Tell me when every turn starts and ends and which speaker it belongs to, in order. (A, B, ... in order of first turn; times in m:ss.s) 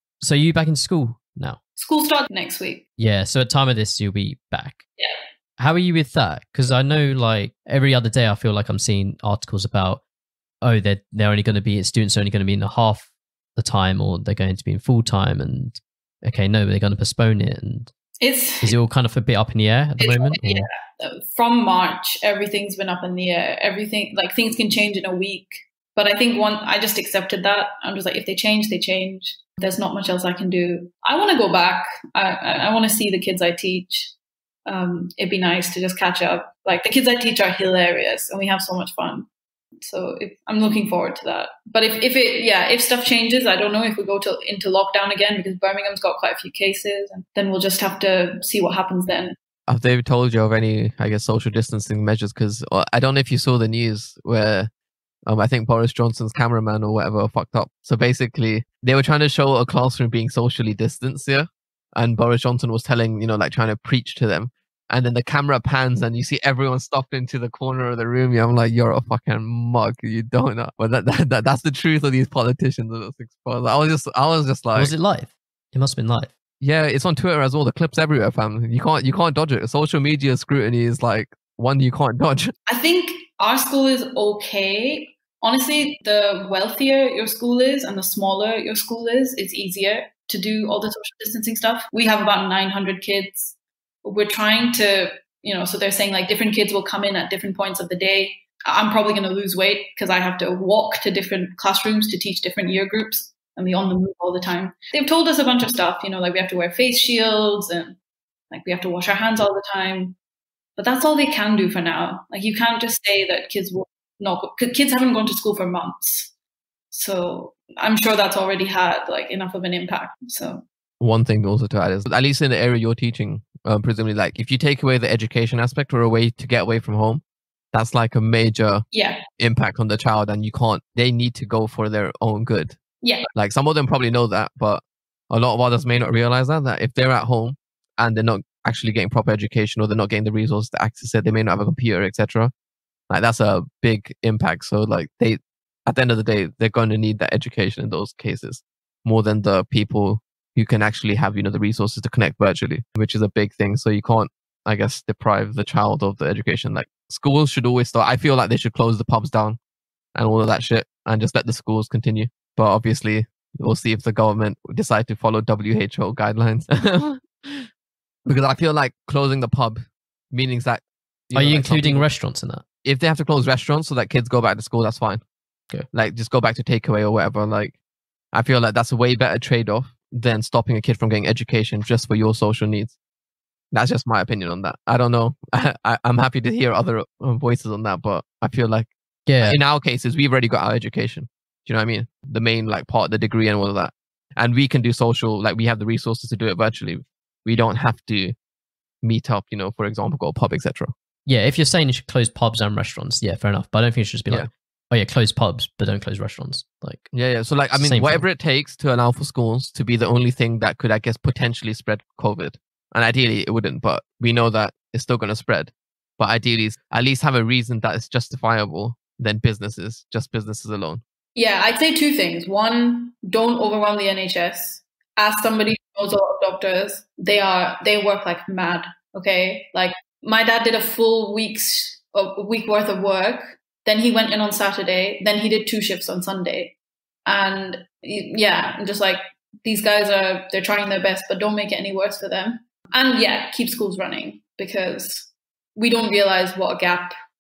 0:00.2-0:01.6 A
0:01.8-0:02.8 B
0:03.0-0:04.8 A
0:05.6-0:10.0 A
0:10.6-0:17.9 A
0:18.2-0:18.8 B
0:18.6-0:20.7 A
0:20.0-0:34.1 B
0:34.6-0:39.3 B
0:39.8-0:49.4 B
0:49.7-0:54.7 C
0:55.3-1:14.9 C
1:14.8-1:16.3 A
1:16.6-1:22.5 C
1:22.7-1:48.0 B
1:48.5-1:50.2 B
1:50.8-1:56.3 B
1:56.9-2:00.6 B
2:01.0-2:08.9 C
2:08.9-2:09.2 B
2:09.4-2:12.8 C
2:13.0-2:13.3 B
2:13.3-2:22.5 C
2:23.1-2:39.6 C
2:40.1-2:47.6 C
2:48.2-2:49.8 C
2:50.3-2:52.1 C
2:51.3-2:52.6 A
2:52.8-2:55.2 C
2:55.9-2:57.8 C
2:58.3-3:03.0 C
3:03.7-3:08.9 C
3:09.3-3:09.6 A
3:09.4-3:18.3 C
3:19.0-3:20.9 C
3:21.2-3:27.1 A
3:27.1-3:41.0 C
3:27.7-3:28.2 A
3:41.3-3:56.7 B
3:57.2-4:07.1 B